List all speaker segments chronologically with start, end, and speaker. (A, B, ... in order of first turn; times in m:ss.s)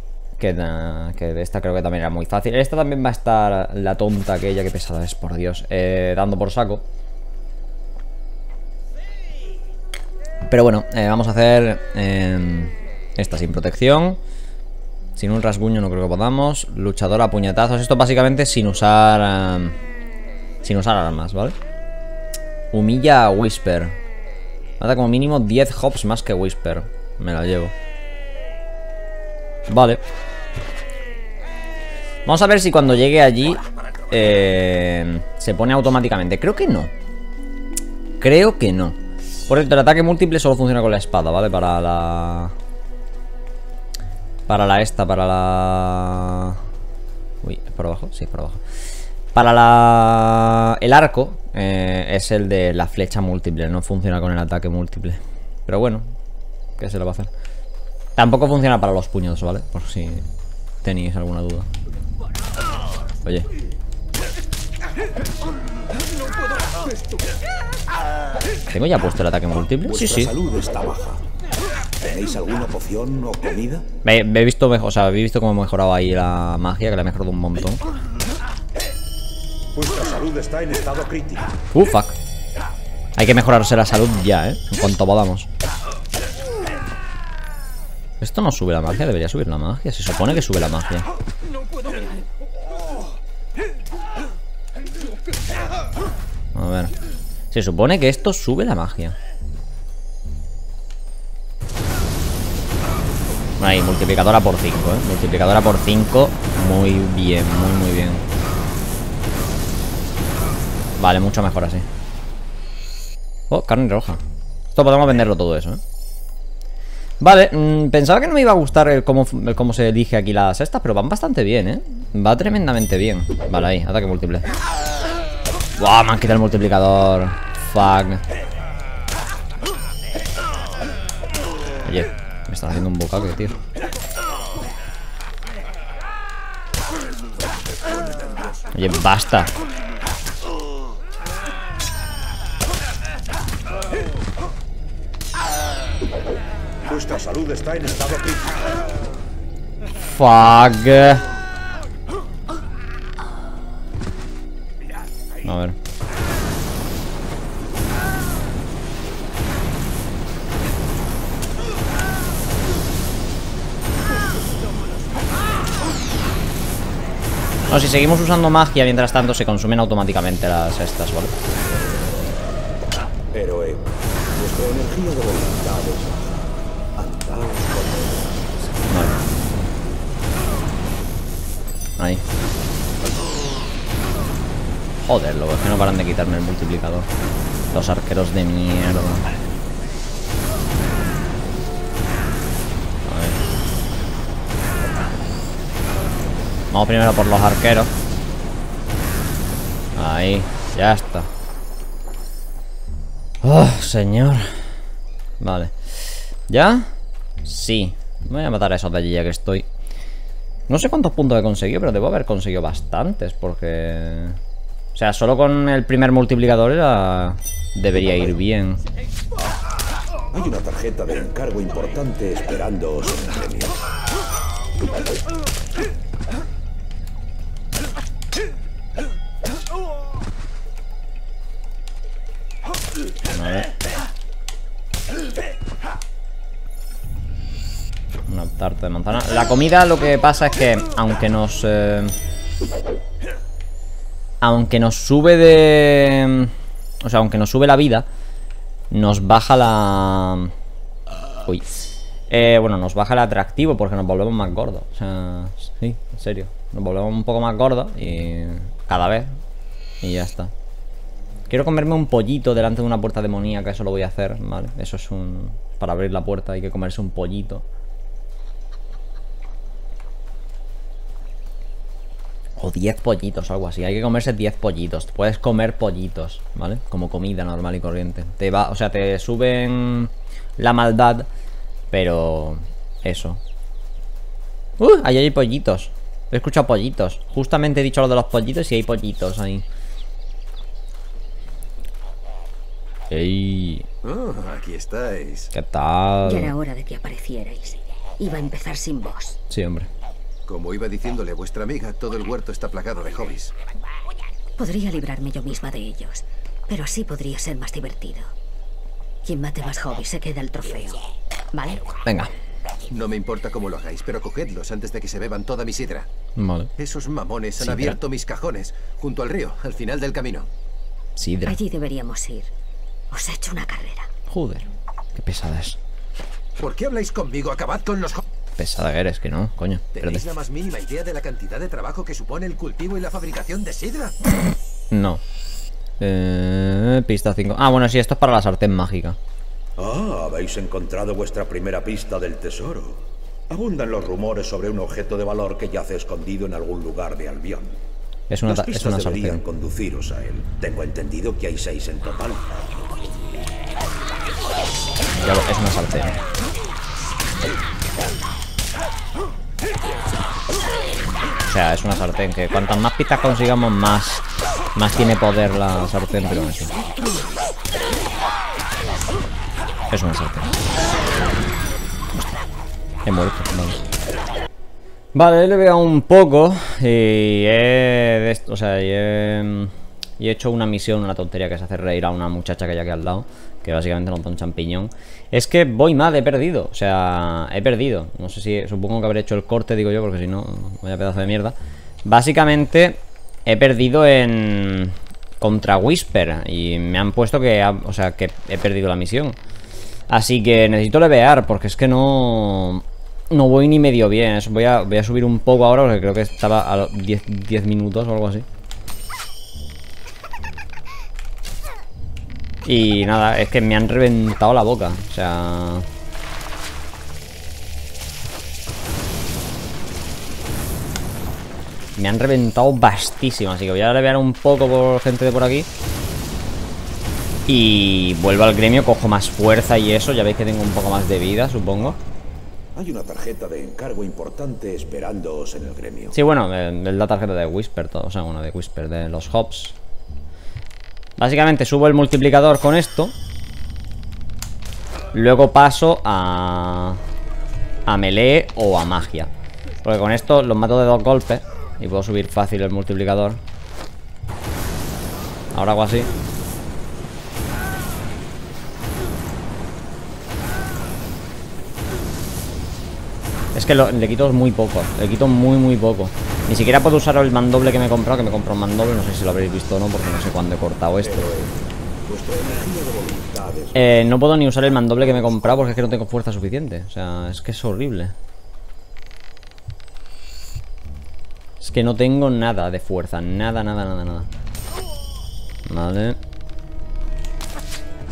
0:00.4-0:06.8 A
0:10.5-0:14.2 A
0:15.2-0:19.8 A
0:20.6-0:21.5 A
0:22.7-0:24.0 A
0:24.8-0:27.7 A
0:29.7-0:30.0 A
0:32.2-0:36.9 A
0:38.2-0:42.5 A
0:44.5-0:46.6 A
0:47.4-0:48.6 A
0:49.3-0:56.1 A
0:56.8-0:57.3 A
0:58.2-1:00.2 A
1:00.8-1:01.7 A
1:08.7-1:10.3 A
1:09.8-1:11.3 B
1:12.0-1:13.9 B
1:14.0-1:17.8 A
1:19.7-1:21.6 B
1:21.7-1:22.2 A
1:23.2-1:25.5 A
1:28.2-1:31.0 A
1:36.5-1:36.9 A
1:37.5-1:39.2 A
1:43.6-1:48.2 A
1:51.0-1:51.9 A
1:53.5-1:54.2 A
1:54.7-1:55.8 A
1:57.2-2:04.5 A
2:05.8-2:08.2 A
2:11.8-2:13.6 A
2:17.8-2:18.6 B
2:18.7-2:19.5 A
2:26.8-2:28.8 B
2:30.0-2:31.2 A
2:35.4-2:35.8 A
2:47.7-2:51.3 A
2:53.3-2:58.4 B
2:58.8-2:59.2 A
3:05.1-3:07.1 A
3:07.7-3:09.3 A
3:13.0-3:13.4 A
3:16.7-3:17.9 A
3:19.9-3:21.3 A
3:23.4-3:24.6 A
3:25.4-3:26.9 A
3:27.4-3:29.6 A
3:30.7-3:34.4 A
3:34.9-3:38.8 A
3:40.3-3:43.9 B
3:53.3-3:53.7 A
3:58.3-4:02.2 A
4:04.4-4:08.0 A
4:08.9-4:10.5 A
4:11.4-4:19.4 A
4:20.0-4:20.5 A
4:21.5-4:27.6 A
4:32.6-4:41.3 A
4:41.9-4:43.4 A
4:44.8-4:49.6 A
4:53.1-4:53.8 A
4:54.0-4:55.5 C
4:55.5-4:56.5 A
4:56.2-4:59.4 D
4:59.5-4:59.9 A
5:00.4-5:03.5 C
5:04.6-5:08.3 D
5:09.2-5:11.0 D
5:11.5-5:11.8 D
5:12.0-5:12.3 A
5:12.9-5:16.1 C
5:16.4-5:16.7 A
5:16.8-5:20.5 C
5:17.6-5:18.0 A
5:21.2-5:21.6 A
5:21.4-5:22.5 D
5:23.1-5:24.1 D
5:24.3-5:25.8 A
5:26.6-5:28.2 C
5:28.6-5:30.2 A
5:29.9-5:34.2 C
5:34.9-5:35.2 A
5:36.0-5:39.2 A
5:39.8-5:47.8 B
5:48.3-5:49.4 A
5:48.4-5:52.7 B
5:55.1-5:56.2 A
6:01.5-6:04.2 A
6:04.7-6:06.7 A
6:06.7-6:07.4 D
6:09.9-6:10.5 A
6:13.0-6:13.8 A
6:15.1-6:39.4 A
6:40.1-6:48.4 A
6:52.6-6:55.9 A
7:02.0-7:05.7 A
7:07.5-7:12.0 A
7:12.7-7:16.2 B
7:16.1-7:19.8 A
7:21.2-7:23.1 A
7:25.1-7:27.0 A
7:27.8-7:29.3 A
7:29.8-7:33.4 A
7:35.5-7:36.1 A
7:43.5-7:51.3 A
7:51.0-7:53.9 B
7:53.7-7:58.1 A
8:01.6-8:04.3 A
8:05.6-8:06.2 A